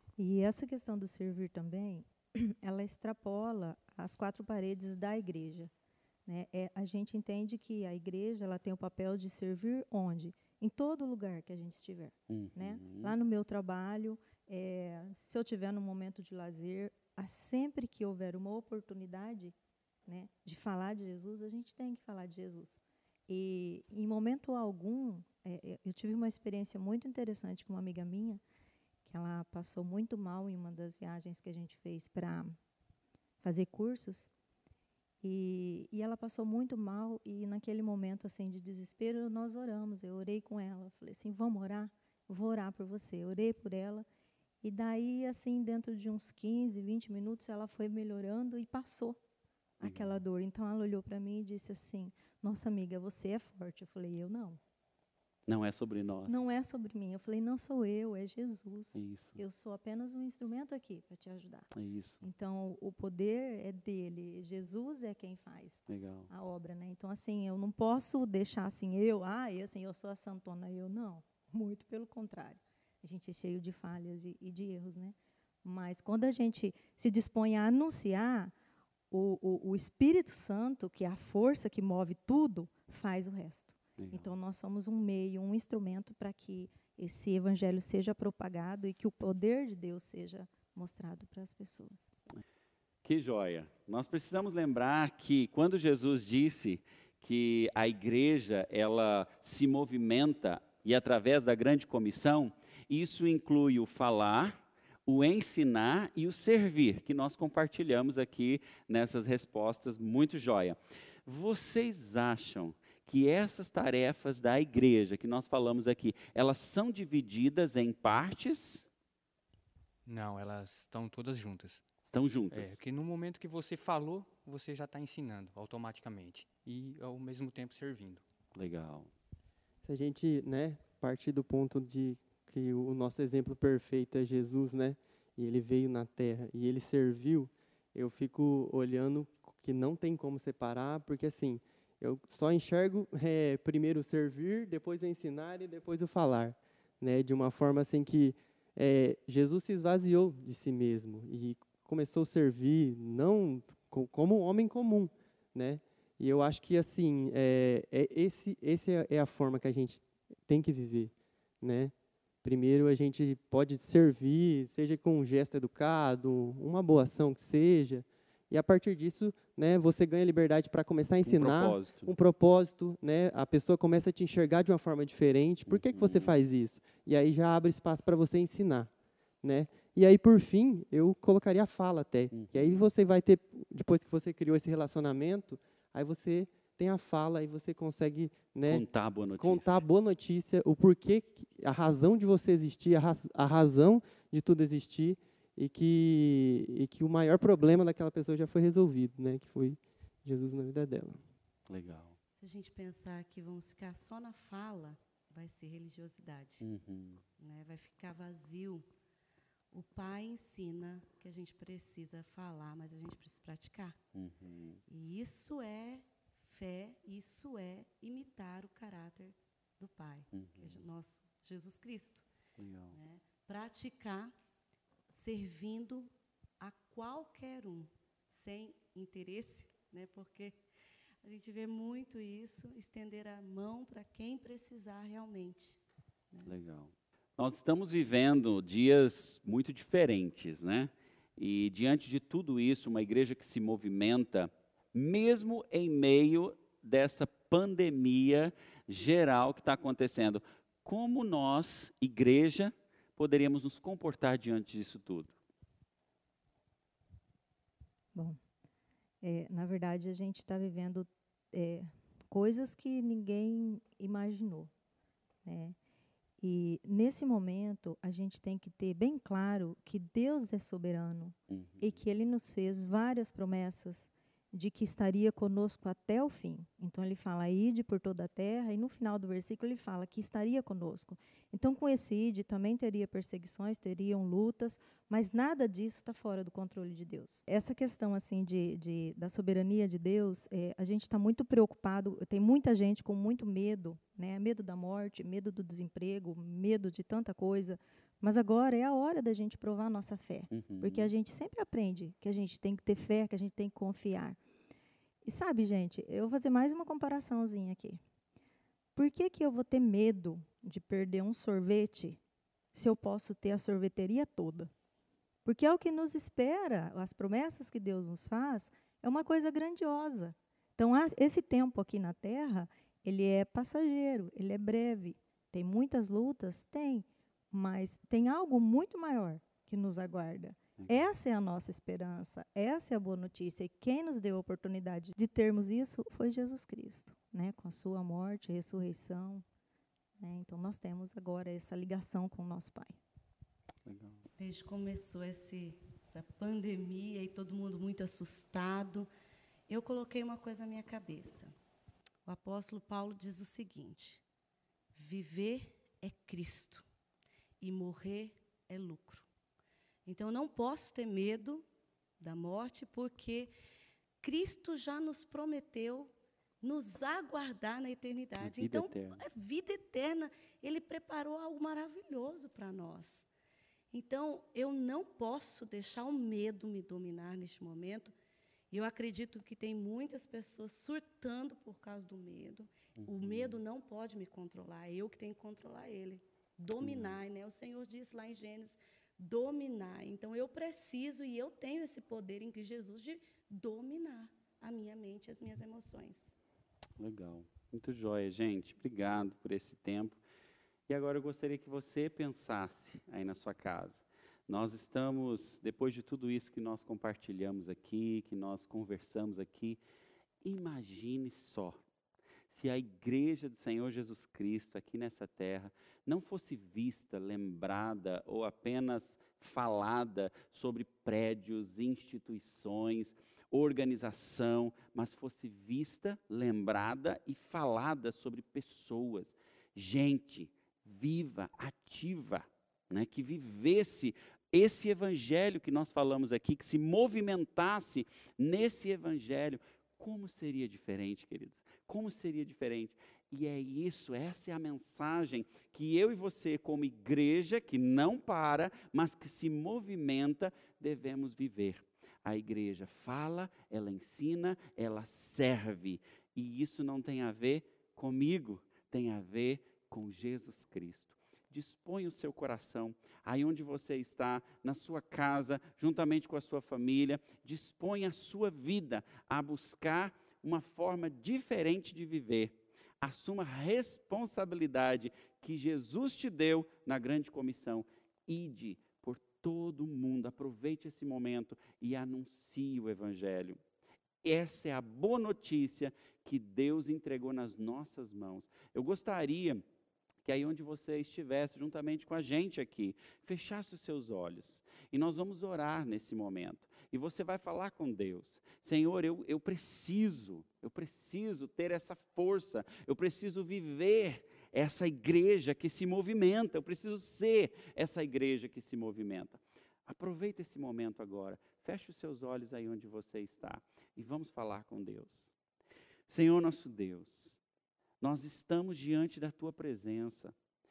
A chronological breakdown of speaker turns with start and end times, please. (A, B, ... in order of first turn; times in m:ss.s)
0:00.2-0:05.7 A
0:06.3-0:19.5 A
0:12.3-0:13.1 B
0:20.1-0:28.4 A
0:29.1-0:32.6 A
0:33.4-0:34.3 A
0:35.2-0:44.1 A
0:44.6-0:49.2 A
0:49.8-0:54.6 A
0:49.8-0:50.2 B
0:55.5-0:56.5 B
0:56.3-1:01.7 A
0:58.9-0:59.4 B
1:01.8-1:02.2 B
1:02.2-1:18.5 A
1:05.9-1:06.3 B
1:19.1-1:32.1 A
1:24.0-1:24.3 B
1:33.0-1:58.9 B
2:00.1-2:01.8 C
2:02.1-2:02.8 B
2:02.5-2:08.2 C
2:08.6-2:09.1 B
2:09.8-2:58.9 D
2:51.3-2:52.1 B
2:55.7-2:56.4 B
2:59.4-3:08.9 D
3:02.3-3:02.9 B
3:08.7-3:09.8 B
3:09.4-3:21.2 D
3:21.7-3:22.2 B
3:22.4-3:26.7 E
3:26.6-3:27.2 B
3:27.4-3:28.9 E
3:29.7-3:34.0 E
3:34.2-3:34.8 B
3:34.9-3:42.3 E
3:40.3-3:40.8 B
3:42.6-3:43.0 B
3:42.9-3:44.3 E
3:45.1-3:50.6 E
3:51.2-3:55.8 E
3:56.4-4:15.3 B
4:19.2-4:24.7 A
4:25.4-4:25.8 A
4:26.4-5:04.4 A
4:31.5-4:32.0 B
5:00.5-5:01.1 B
5:05.2-5:08.0 A
5:09.0-5:12.2 A
5:12.7-5:14.7 A
5:15.4-5:39.4 A
5:40.2-5:43.0 A
5:43.9-5:44.2 B
5:44.4-5:49.1 E
5:49.7-5:51.5 E
5:52.2-5:54.2 E
5:54.9-5:56.8 E
5:57.6-5:59.3 E
6:00.1-6:01.6 E
6:02.2-6:03.5 E
6:04.2-6:13.3 E
6:08.4-6:09.2 B
6:13.9-6:18.1 E
6:18.7-6:36.3 E
6:23.0-6:23.6 B
6:26.8-6:27.2 B
6:37.0-6:40.2 B
6:40.9-6:49.8 B
6:50.4-6:51.8 B
6:52.5-8:03.6 B
8:04.2-8:09.6 B
8:10.2-8:35.3 B
8:36.1-8:37.4 B
8:38.0-8:40.3 B